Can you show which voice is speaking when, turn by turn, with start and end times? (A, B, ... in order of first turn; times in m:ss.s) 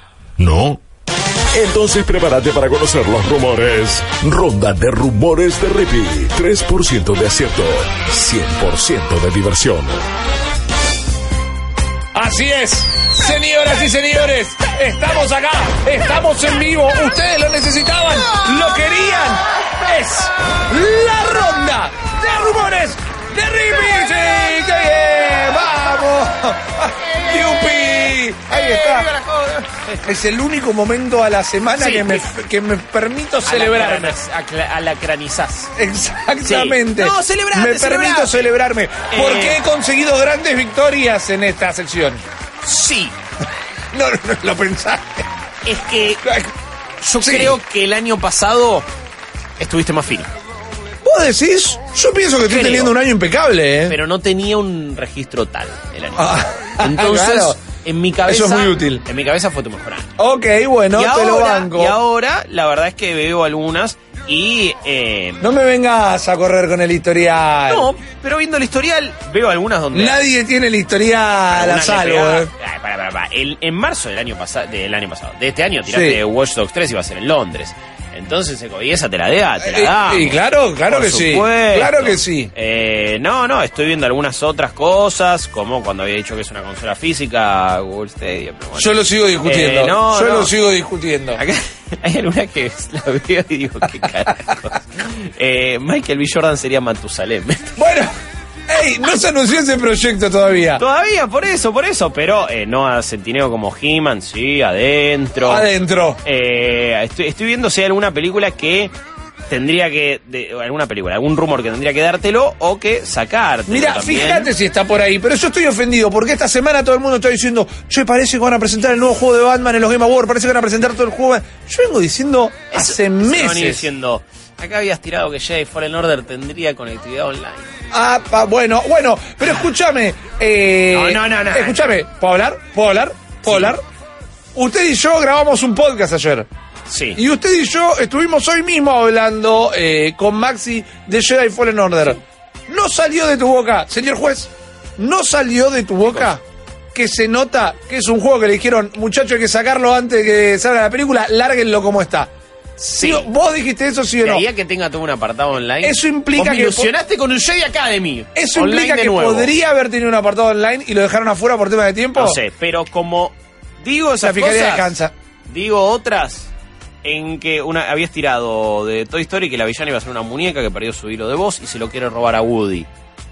0:00.4-0:00.8 A
0:01.5-0:10.0 A
0:12.1-0:29.1 B
0:27.0-0:30.1 C
0:30.0-0:34.2 B
0:31.8-0:32.3 C
0:33.4-0:35.7 C
0:35.8-0:42.2 B
0:36.4-0:38.5 C
0:39.1-0:39.6 C
0:42.6-0:43.1 C
0:43.9-0:45.3 B
0:45.6-0:46.2 C
0:46.2-0:46.5 B
0:47.0-0:48.9 C
0:47.2-0:47.6 B
0:49.6-0:50.3 C
0:51.0-0:54.0 B
0:52.5-0:52.9 C
0:53.9-1:00.1 C
0:56.2-0:57.6 B
0:58.2-0:59.0 B
1:00.2-1:02.0 B
1:00.9-1:05.5 C
1:05.4-1:07.9 B
1:07.7-1:10.2 C
1:09.9-1:12.5 B
1:11.5-1:30.5 C
1:15.9-1:16.2 B
1:19.6-1:22.5 B
1:28.8-1:31.4 B
1:31.4-1:37.8 C
1:37.8-1:38.1 B
1:38.7-1:40.8 B
1:40.8-1:45.7 C
1:45.4-1:46.2 B
1:46.2-1:48.9 C
1:49.5-1:54.5 C
1:53.7-2:03.9 B
2:02.7-2:07.7 C
2:07.9-2:13.8 B
2:10.9-2:12.0 C
2:13.5-2:13.7 C
2:14.6-2:16.5 B
2:16.9-2:17.2 C
2:17.2-2:26.4 B
2:26.9-2:34.5 B
2:33.0-2:33.3 C
2:34.2-2:39.5 C
2:35.8-2:36.9 B
2:38.4-2:42.4 B
2:42.2-2:44.9 C
2:44.2-2:45.1 B
2:45.5-2:46.5 C
2:47.0-2:52.9 C